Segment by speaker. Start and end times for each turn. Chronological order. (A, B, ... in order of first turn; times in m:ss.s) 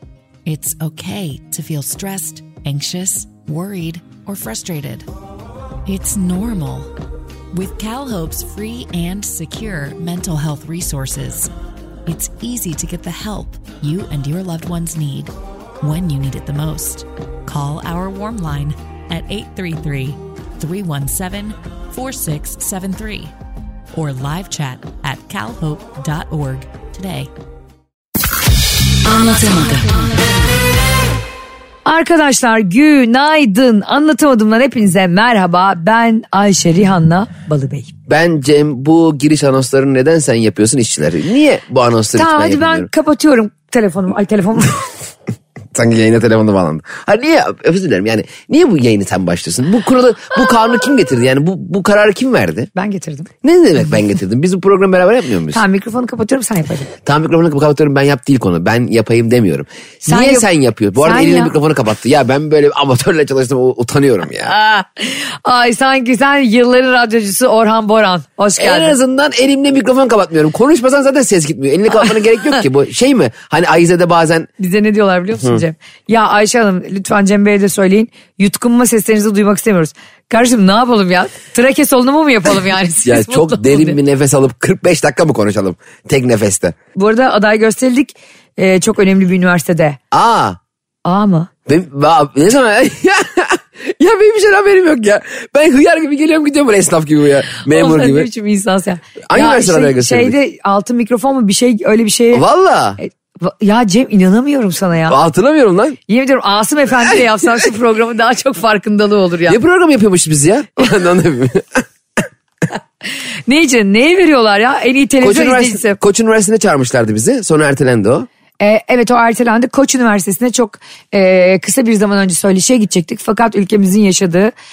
0:00.4-0:05.0 A
0:05.8-0:06.9 A
0:07.5-0:11.5 A
0:12.0-0:23.3 A
0:23.9-0:27.3 A
0:29.0-0:30.4 A
0:31.8-0:37.9 B
0:38.1-0:42.9 C
0:42.1-0:44.8 B
0:45.7-0:52.7 C
0:52.7-0:53.3 B
0:53.4-0:55.6 C
0:55.5-0:56.9 B
0:57.0-1:04.5 C
1:00.0-1:00.5 B
1:01.0-1:01.5 B
1:04.5-1:09.0 B
1:08.6-1:14.5 C
1:14.6-1:24.0 B
1:15.4-1:15.6 C
1:23.0-1:26.7 C
1:26.9-1:30.0 B
1:30.1-1:30.6 C
1:31.0-1:31.5 B
1:31.7-1:38.3 C
1:37.6-1:42.4 B
1:39.3-1:40.3 C
1:42.3-1:43.0 C
1:43.0-1:45.2 B
1:45.1-1:46.0 C
1:46.1-1:49.6 B
1:49.5-1:51.8 C
1:53.5-1:56.0 B
1:55.2-1:58.3 C
1:58.6-2:04.5 B